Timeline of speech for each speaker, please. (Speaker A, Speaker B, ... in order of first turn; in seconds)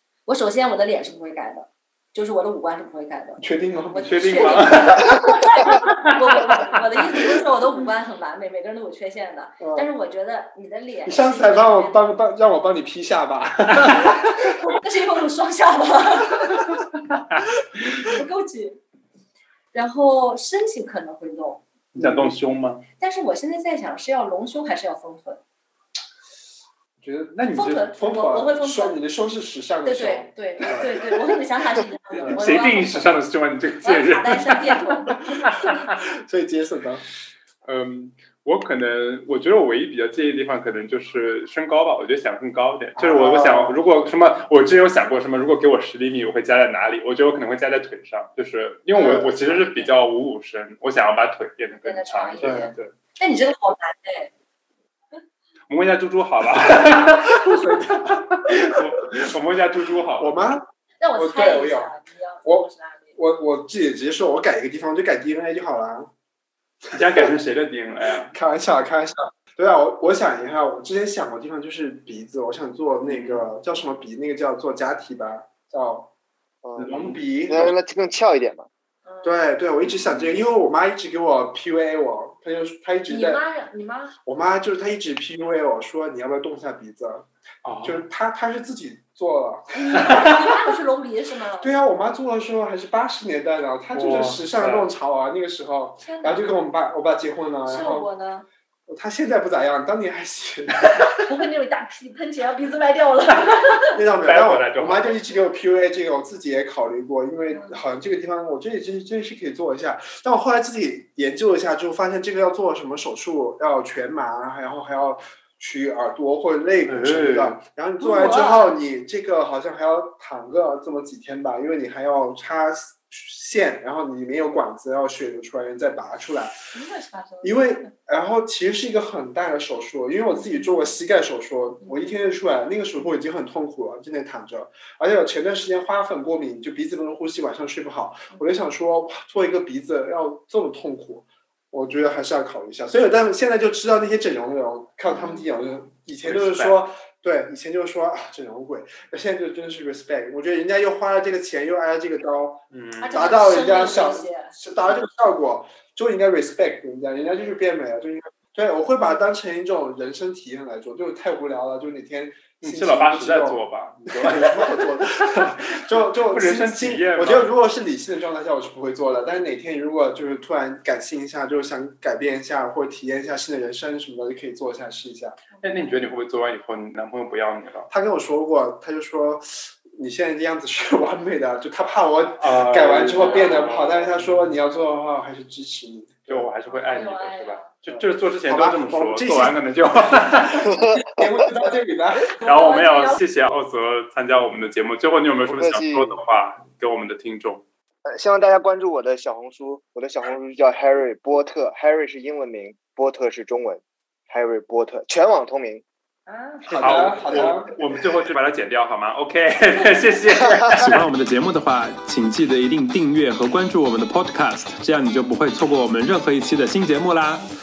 Speaker A: 0.2-12.0, 14.6-16.8, 18.0-18.8, 19.7-21.6, 23.0-25.4, 27.5-29.0, 29.8-33.1, 33.8-35.6, 49.0-49.9, 51.8-54.3, 61.0-63.2, 79.0-79.3, 83.1-84.1, 89.7-91.7, 96.0-96.5, 97.7-98.5, 101.1-104.0, 107.5-107.8, 118.0-118.7, 126.7-127.9, 130.3-130.9, 131.8-132.1, 145.1-145.4, 153.0-154.5, 175.6-175.8, 183.2-183.7, 186.7-187.7, 192.4-193.2, 206.3-207.6
Speaker B: 3.4-4.8, 9.6-9.9, 11.1-14.5, 22.0-22.4, 27.0-31.2, 32.2-32.6, 36.0-37.0, 43.0-43.8, 49.0-49.3, 52.4-52.7, 57.3-58.8, 60.2-60.6, 61.1-61.9, 62.4-66.1, 68.3-76.1, 76.9-77.7, 79.2-83.4, 84.2-87.3, 87.8-90.6, 91.6-98.1, 98.9-101.2, 103.9-126.5, 127.4-175.4, 177.9-186.5, 187.9-192.3, 206.6-207.8
Speaker C: 4.0-6.6, 21.9-22.8, 27.4-27.7, 32.1-35.8, 37.6-52.9, 55.7-60.4, 66.9-68.3, 73.1-73.4, 76.8-77.7, 79.8-80.4, 87.6-88.0, 93.9-94.9, 104.1-105.2, 116.9-117.6, 146.2-146.8, 152.7-153.1, 162.6-167.5, 175.6-177.9, 182.4-184.5, 186.3-190.8, 192.4-197.6, 206.7-211.1
Speaker D: 76.6-76.9, 77.5-78.7, 190.6-191.2, 195.4-196.2, 198.1-205.8
Speaker E: 210.8-217.4